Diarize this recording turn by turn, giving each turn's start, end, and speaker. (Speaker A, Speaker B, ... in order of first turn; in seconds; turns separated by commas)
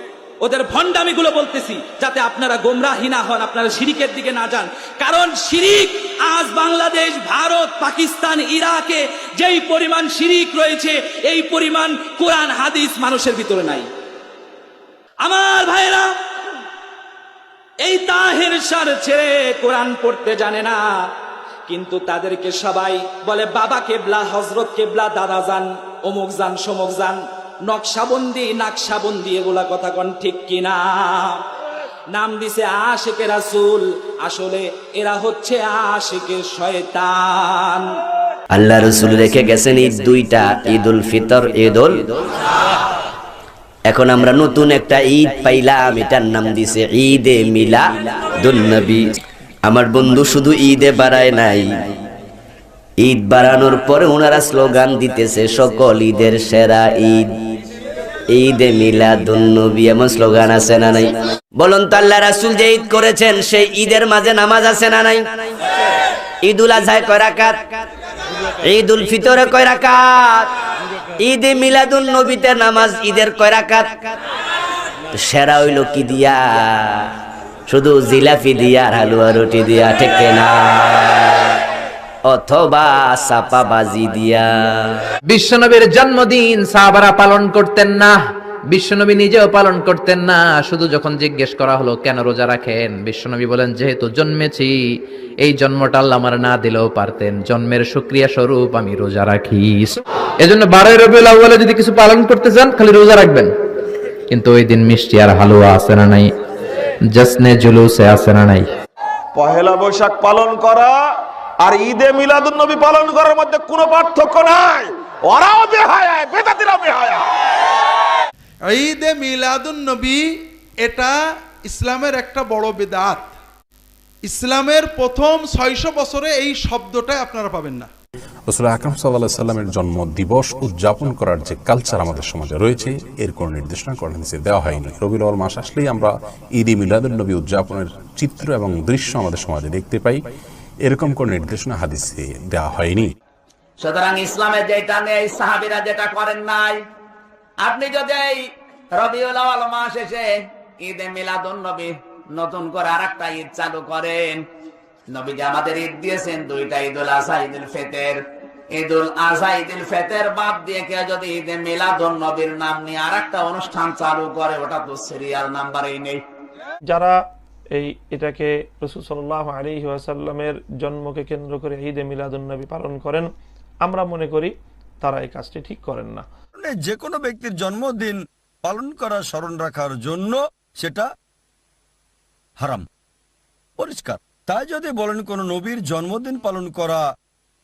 Speaker A: 0.4-13.9, Speaker A: 15.2-16.2, Speaker A: 17.8-20.9, Speaker A: 21.7-31.4, Speaker A: 32.1-37.9, Speaker B: 38.5-42.1, Speaker B: 43.9-49.0, Speaker B: 49.7-51.9, Speaker B: 53.0-57.3, Speaker B: 58.3-65.3, Speaker B: 66.5-67.6, Speaker B: 68.6-70.5, Speaker B: 71.2-74.0, Speaker B: 75.2-76.9, Speaker B: 77.7-81.2, Speaker B: 82.2-85.0, Speaker C: 85.3-88.2, Speaker C: 88.7-94.8, Speaker C: 95.4-103.5, Speaker C: 104.3-106.3, Speaker C: 107.1-108.7, Speaker D: 109.3-111.0, Speaker D: 111.6-117.2, Speaker E: 118.7-120.2, Speaker E: 120.8-121.1, Speaker E: 121.7-123.3, Speaker E: 124.2-127.9, Speaker F: 128.5-140.2, Speaker F: 140.9-143.1, Speaker G: 143.8-146.8, Speaker G: 147.6-154.4, Speaker G: 155.1-158.2, Speaker G: 158.7-166.2, Speaker H: 166.9-167.2, Speaker H: 167.7-173.3, Speaker H: 173.8-176.2, Speaker I: 176.6-181.1, Speaker I: 183.8-187.0